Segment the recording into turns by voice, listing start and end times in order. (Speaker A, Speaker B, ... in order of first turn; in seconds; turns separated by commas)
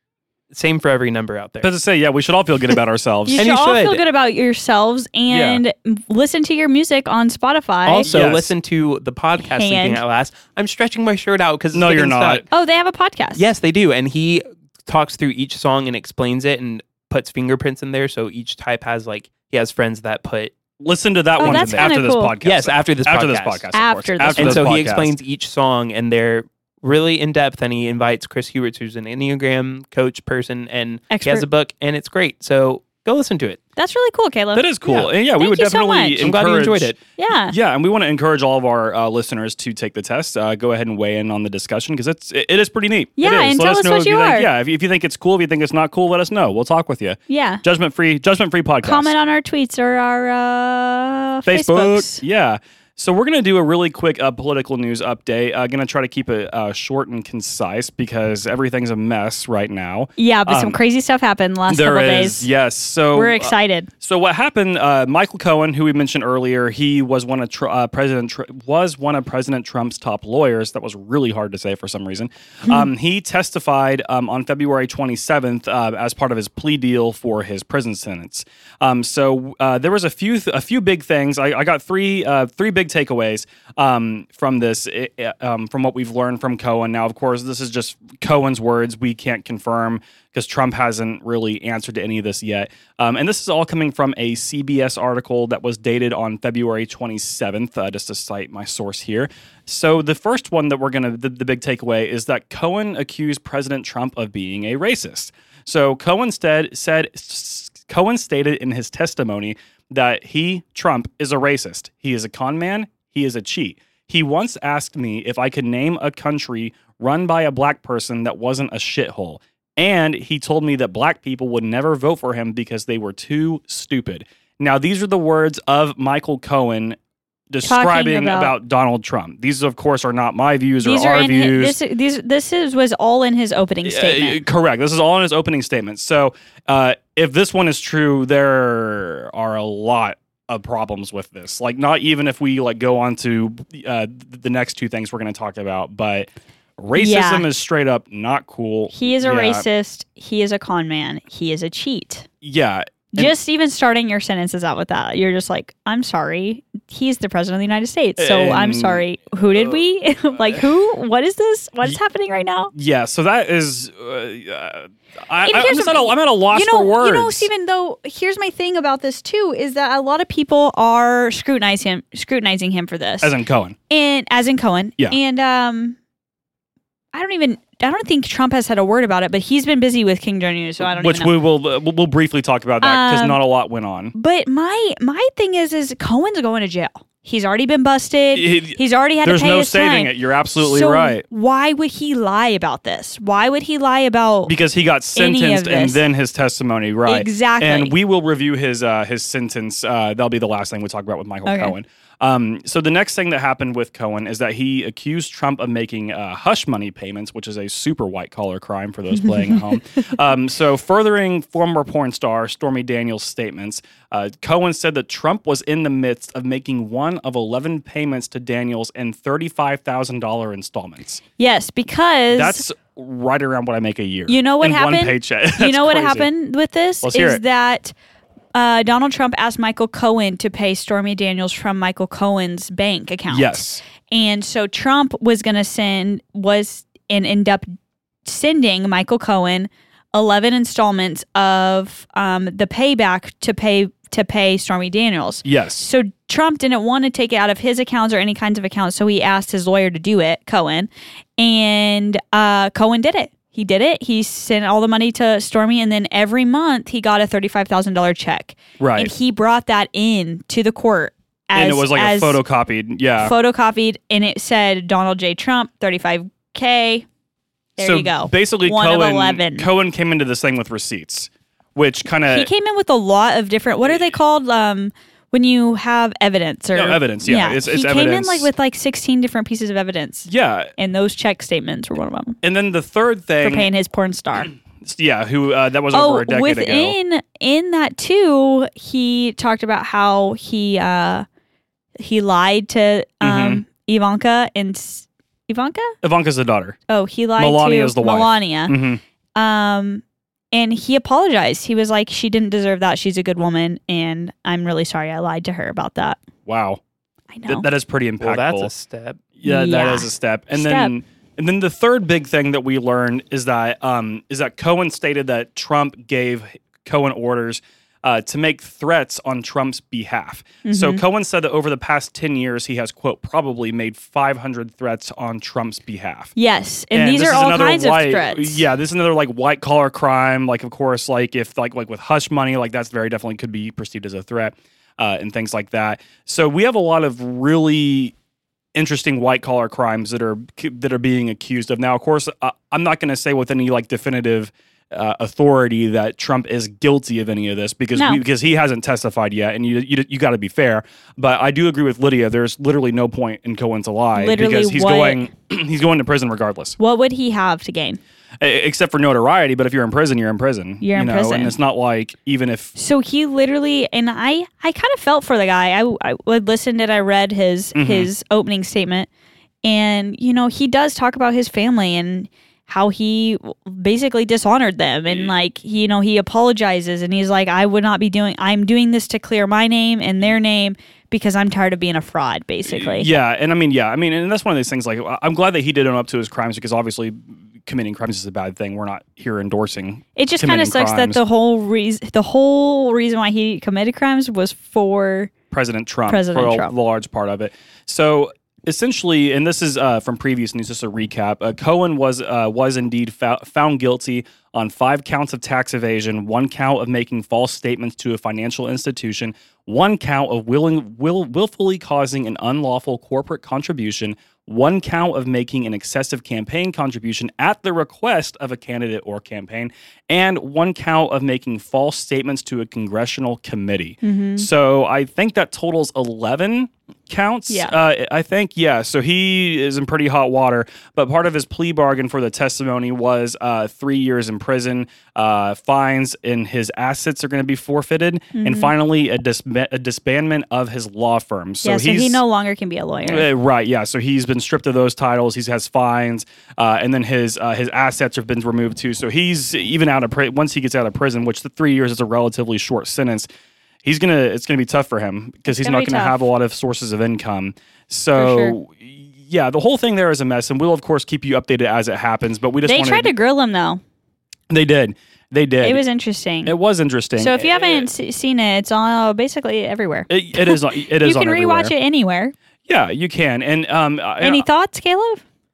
Speaker A: 0.5-1.7, Speaker B: 1.6-3.4, Speaker C: 3.2-8.1, Speaker A: 3.4-4.0, Speaker B: 5.3-5.6, Speaker A: 7.8-12.4, Speaker B: 8.0-8.5, Speaker C: 9.4-10.0, Speaker B: 11.7-12.4, Speaker C: 12.5-13.4, Speaker A: 13.4-20.5, Speaker B: 20.8-25.1, Speaker C: 21.4-22.3, Speaker A: 21.4-23.6, Speaker C: 23.7-24.7, Speaker A: 24.4-33.6, Speaker C: 31.1-31.4, Speaker C: 33.8-36.3, Speaker B: 34.5-49.1, Speaker A: 36.2-37.0, Speaker C: 37.2-37.5, Speaker C: 43.2-44.5, Speaker C: 47.3-47.6, Speaker C: 48.8-52.2, Speaker B: 51.5-60.8, Speaker C: 60.2-62.5, Speaker B: 61.7-127.0, Speaker C: 63.1-63.9, Speaker B: 127.5-131.8, Speaker C: 127.6-128.5, Speaker C: 130.8-134.4, Speaker B: 133.8-149.6, Speaker C: 146.9-147.4, Speaker C: 148.9-152.2, Speaker B: 152.4-153.3, Speaker C: 153.1-162.7, Speaker B: 158.2-159.0, Speaker B: 162.7-167.5, Speaker C: 165.4-173.3, Speaker B: 173.2-173.8, Speaker C: 173.9-176.0, Speaker C: 177.1-181.3, Speaker B: 180.8-184.1, Speaker C: 182.8-183.4, Speaker C: 184.1-194.5, Speaker B: 188.3-191.2, Speaker B: 194.5-221.2, Speaker C: 195.1-196.0, Speaker C: 197.1-197.9, Speaker C: 201.4-201.7, Speaker C: 209.2-209.6, Speaker C: 221.4-222.6, Speaker B: 222.3-226.3, Speaker C: 224.3-227.9, Speaker B: 227.0-227.4, Speaker C: 228.5-237.7, Speaker B: 233.3-233.8, Speaker C: 238.2-262.4, Speaker B: 245.4-245.9, Speaker B: 258.8-259.1, Speaker B: 261.5-263.3, Speaker C: 263.2-267.1, Speaker C: 267.8-269.7, Speaker B: 267.8-272.5, Speaker C: 272.3-282.4, Speaker B: 276.7-278.5, Speaker B: 280.3-280.7, Speaker B: 282.4-283.7, Speaker C: 283.4-284.5, Speaker B: 284.8-286.9, Speaker C: 285.9-291.2, Speaker C: 292.0-295.9, Speaker B: 293.2-293.6, Speaker B: 296.0-296.8, Speaker C: 296.9-298.8, Speaker B: 297.4-299.0, Speaker C: 299.4-306.2, Speaker B: 306.4-306.8, Speaker C: 307.3-307.6, Speaker B: 307.5-308.7, Speaker A: 308.2-309.2, Speaker B: 309.4-326.3, Speaker C: 309.4-310.9, Speaker C: 320.6-321.0, Speaker C: 326.4-328.6, Speaker B: 326.9-338.1, Speaker B: 338.7-356.8, Speaker C: 347.9-348.2, Speaker C: 354.1-355.3, Speaker C: 356.8-358.0, Speaker B: 358.4-362.7, Speaker C: 360.8-361.5, Speaker C: 362.7-369.1, Speaker B: 367.7-368.1, Speaker C: 369.6-383.1, Speaker B: 382.6-391.2, Speaker C: 390.1-395.3, Speaker B: 395.5-442.2, Speaker C: 396.1-396.7, Speaker C: 424.0-424.4, Speaker C: 438.3-438.7, Speaker C: 441.6-443.3, Speaker B: 443.0-453.3, Speaker B: 453.8-463.1, Speaker C: 455.5-456.2, Speaker C: 458.1-458.6, Speaker C: 462.6-463.8, Speaker B: 464.5-465.8, Speaker C: 465.6-466.5, Speaker B: 466.4-467.7, Speaker C: 467.2-472.3, Speaker B: 470.1-471.7, Speaker B: 472.7-474.4, Speaker C: 474.2-475.2